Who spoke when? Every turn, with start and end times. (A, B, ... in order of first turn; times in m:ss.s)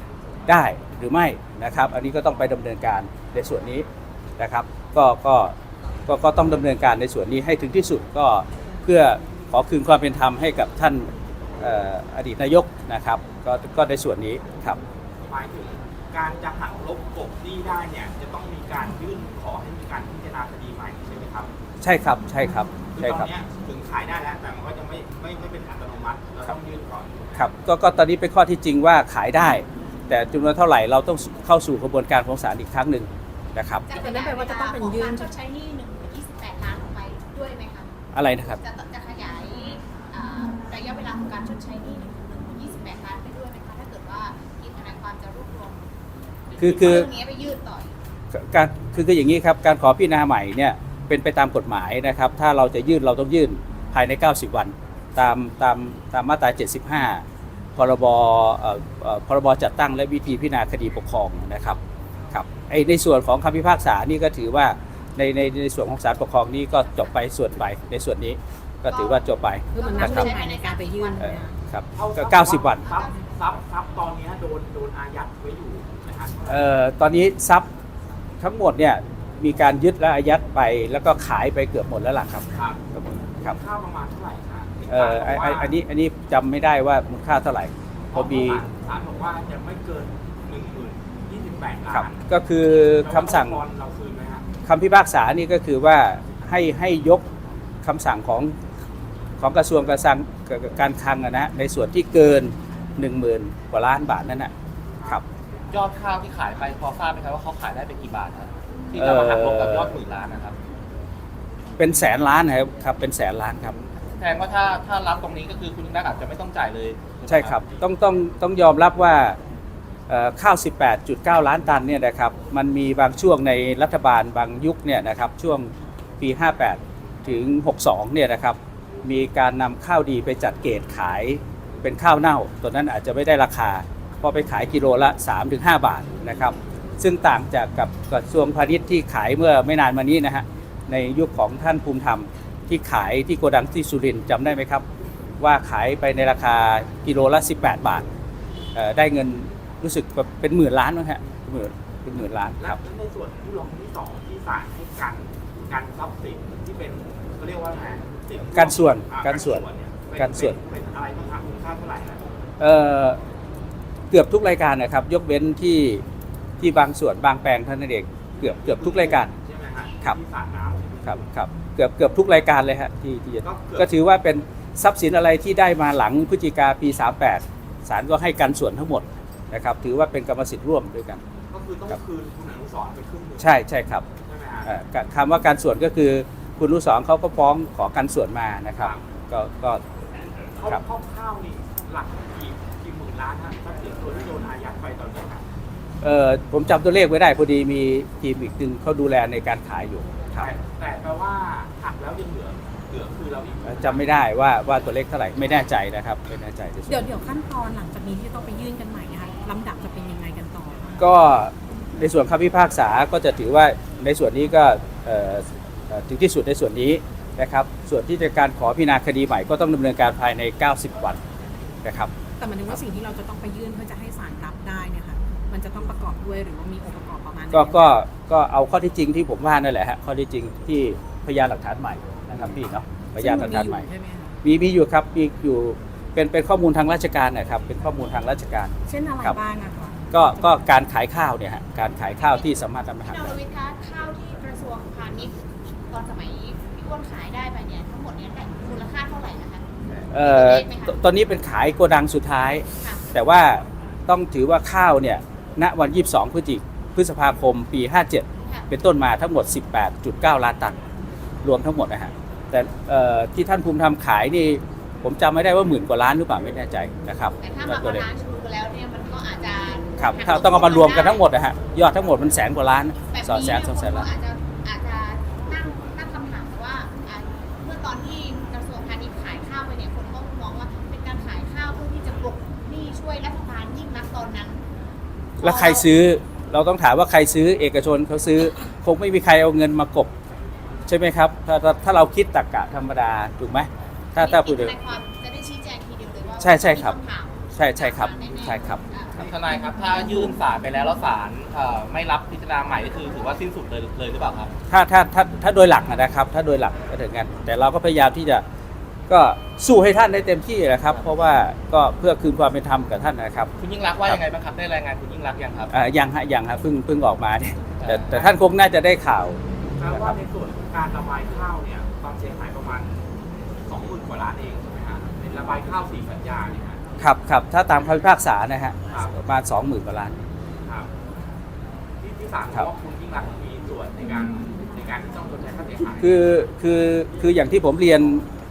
0:00.5-0:03.8 A
0:04.4-0:05.5 A
0:06.1-0:14.8 A
0:15.2-0:21.5 B
0:21.8-0:23.3 A
0:23.0-0:27.4 B
0:27.4-0:33.9 A
0:33.9-0:37.9 C
0:33.9-0:35.3 D
0:38.1-0:38.6 A
0:38.6-0:45.8 C
0:46.5-0:47.9 C
0:46.6-0:47.1 A
0:48.3-0:57.2 A
0:57.8-1:01.8 A
1:02.3-1:10.3 A
1:08.9-1:11.2 C
1:09.7-1:11.6 D
1:11.2-1:12.8 A
1:11.9-1:16.6 B
1:12.8-1:13.2 C
1:16.5-1:17.7 A
1:18.4-1:23.6 A
1:22.5-1:22.8 B
1:23.4-1:25.7 B
1:24.9-1:28.6 A
1:28.1-1:32.2 B
1:31.9-1:33.6 A
1:32.9-1:34.4 B
1:34.6-1:37.2 A
1:37.8-1:38.6 A
1:39.4-1:44.5 A
1:45.7-1:50.6 E
1:49.0-1:49.9 A
1:51.8-1:53.8 A
1:54.1-1:57.6 E
1:57.3-1:59.4 A
2:00.1-2:24.8 A
2:25.4-2:28.0 A
2:28.7-2:32.8 A
2:32.6-2:42.3 B
2:38.5-2:39.6 A
2:40.2-2:40.6 A
2:42.6-2:43.2 A
2:44.1-2:46.0 A
2:46.6-2:49.3 A
2:48.4-2:51.3 B
2:51.0-3:01.2 A
2:53.4-2:53.9 B
3:01.5-3:03.6 B
3:03.4-3:04.0 A
3:04.2-3:04.7 B
3:04.6-3:09.8 A
3:10.6-3:15.4 B
3:16.0-3:20.5 A
3:20.4-3:24.1 B
3:23.6-3:27.1 A
3:26.9-3:31.0 D
3:31.0-3:41.2 A
3:41.8-3:42.1 A
3:42.4-3:48.0 D
3:47.5-3:53.8 A
3:53.1-3:54.3 D
3:54.4-3:59.4 A
3:58.9-4:00.6 D
4:00.1-4:03.3 A
4:02.2-4:02.5 C
4:03.0-4:05.3 C
4:05.9-4:11.1 C
4:10.1-4:20.8 A
4:21.4-4:28.0 A
4:27.4-4:31.2 C
4:30.0-4:34.1 A
4:33.1-4:44.6 C
4:45.4-4:45.9 C
4:45.4-4:50.1 A
4:50.9-4:54.7 A
4:54.2-4:59.4 C
4:56.4-4:57.0 A
4:57.5-4:58.8 A
4:59.2-5:04.5 E
5:04.7-5:08.4 A
5:09.1-5:13.5 A
5:13.6-5:15.7 E
5:15.7-5:19.4 A
5:17.8-5:18.3 E
5:19.8-5:23.1 B
5:23.6-5:26.8 B
5:27.0-5:30.2 A
5:30.6-5:30.9 B
5:32.0-5:36.2 B
5:36.0-5:38.3 A